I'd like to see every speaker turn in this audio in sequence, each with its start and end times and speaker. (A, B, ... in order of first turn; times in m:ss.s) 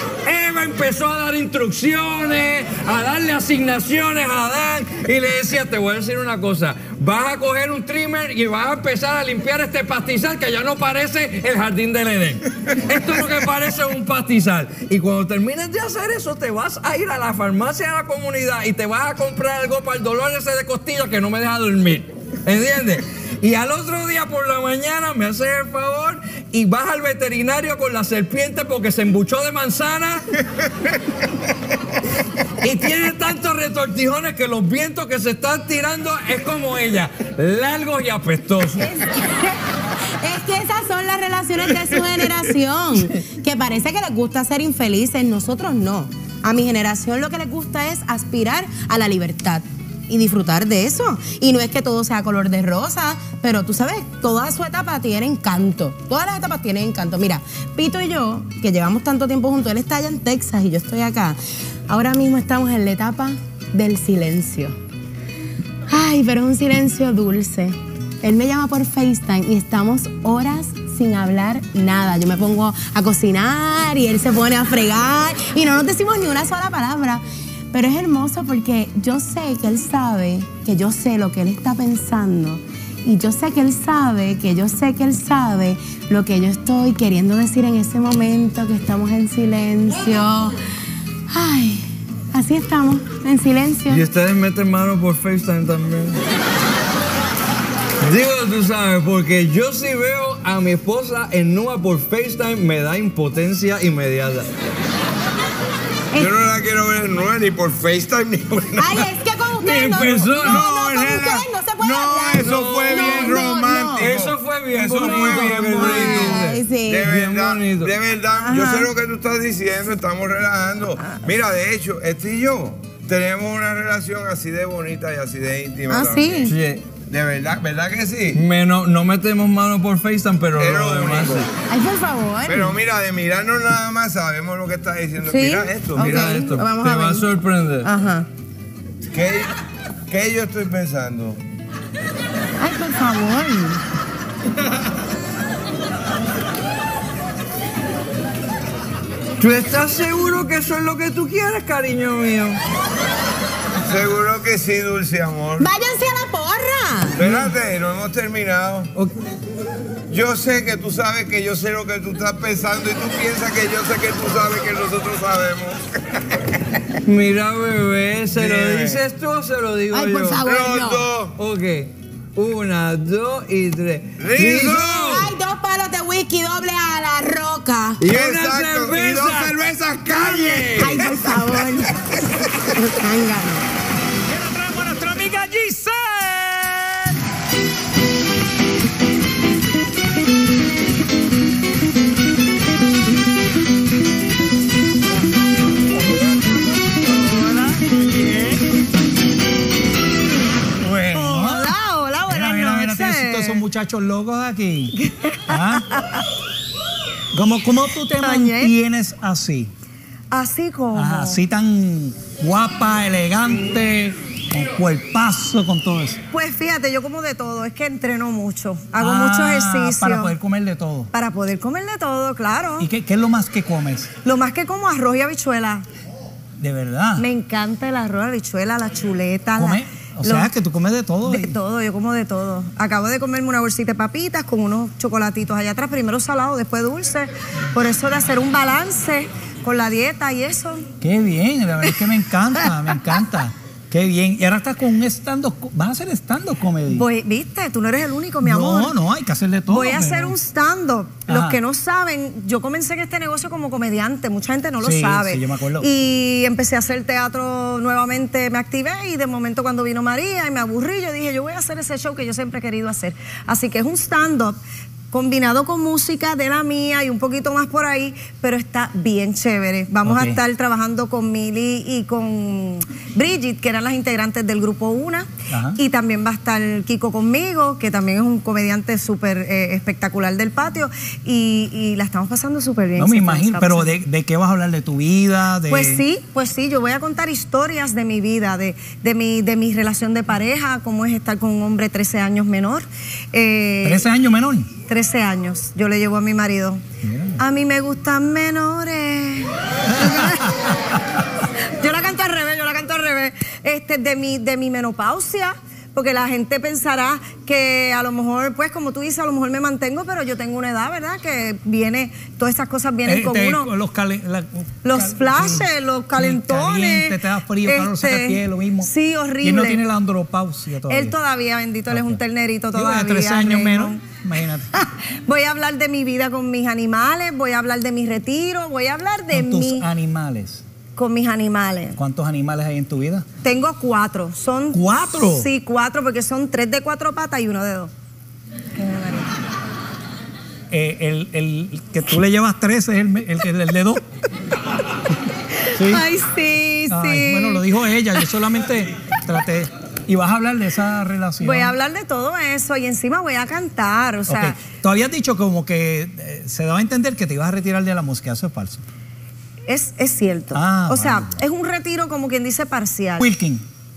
0:00.2-0:30.3 A
0:32.6-0:39.1 A
0:38.8-0:39.6 B
0:40.2-1:04.8 B
1:05.9-1:30.6 B
1:31.3-1:34.1 B
1:33.9-1:36.2 A
1:38.0-1:44.5 A
1:46.1-1:49.1 C
1:48.8-1:54.0 B
1:49.6-1:50.7 A
1:50.0-2:08.4 C
1:52.4-1:57.9 A
1:54.9-1:57.1 B
1:58.4-1:58.8 B
2:05.9-2:06.5 B
2:06.4-2:06.8 A
2:08.4-2:11.5 A
2:10.6-2:11.5 C
2:11.7-2:12.8 B
2:12.5-2:16.3 C
2:15.3-2:18.3 B
2:16.0-2:17.9 A
2:19.1-2:19.5 C
2:20.1-2:21.4 C
2:22.6-2:23.8 B
2:29.4-2:32.6 A
2:33.8-2:35.7 C
2:35.6-2:37.2 B
2:37.2-2:38.9 C
2:37.2-2:37.5 A
2:40.1-2:45.8 C
2:47.0-2:50.5 A
2:48.4-2:49.0 C
2:49.9-2:51.1 B
2:50.3-2:51.3 C
2:51.4-2:55.3 A
2:54.2-2:55.3 C
2:54.7-2:58.0 B
2:58.0-3:01.7 C
2:58.0-2:59.6 A
3:00.8-3:02.0 B
3:02.8-3:03.6 B
3:04.3-3:07.2 D
3:17.2-3:18.6 D
3:20.8-3:21.7 D
3:21.1-3:23.6 E
3:22.3-3:24.9 D
3:25.1-3:26.2 E
3:25.5-3:25.9 D
3:27.3-3:29.7 D
3:28.2-3:28.7 E
3:30.3-3:31.4 E
3:31.0-3:36.2 D
3:36.3-3:40.4 E
3:39.0-3:41.1 D
3:41.1-3:42.9 E
3:42.8-3:44.1 D
3:44.2-3:45.8 E
3:46.6-3:47.3 D
3:47.2-3:50.5 E
3:49.6-3:51.6 D
3:51.2-4:00.9 E
4:01.0-4:07.0 D
4:06.9-4:09.0 E
4:08.4-4:10.3 D
4:09.7-4:24.6 E
4:11.3-4:11.6 D
4:14.8-4:15.9 D
4:25.1-4:43.9 E
4:30.0-4:30.4 D
4:35.5-4:35.8 D
4:43.0-4:46.0 D
4:45.7-4:54.1 E
4:53.8-4:54.7 D
4:54.9-4:56.8 E
4:57.0-4:57.4 D
4:57.4-5:00.6 E
5:00.0-5:00.3 D
5:01.8-5:13.7 E
5:13.0-5:18.9 D
5:14.8-5:19.8 E
5:19.4-5:21.2 D
5:20.9-5:24.0 E
5:21.9-5:22.2 D
5:22.7-5:24.7 D
5:24.8-5:29.9 E
5:29.3-5:30.6 D
5:31.0-5:32.0 E
5:32.0-5:33.2 D
5:33.4-5:37.9 E
5:34.7-5:35.5 D
5:38.8-5:39.3 E
5:40.7-5:44.0 D
5:45.7-5:46.0 D
5:45.7-5:47.6 E
5:46.9-5:51.8 D
5:51.4-5:54.6 E
5:54.3-5:58.8 D
5:59.7-6:03.2 E
6:00.5-6:01.3 D
6:03.2-6:03.6 D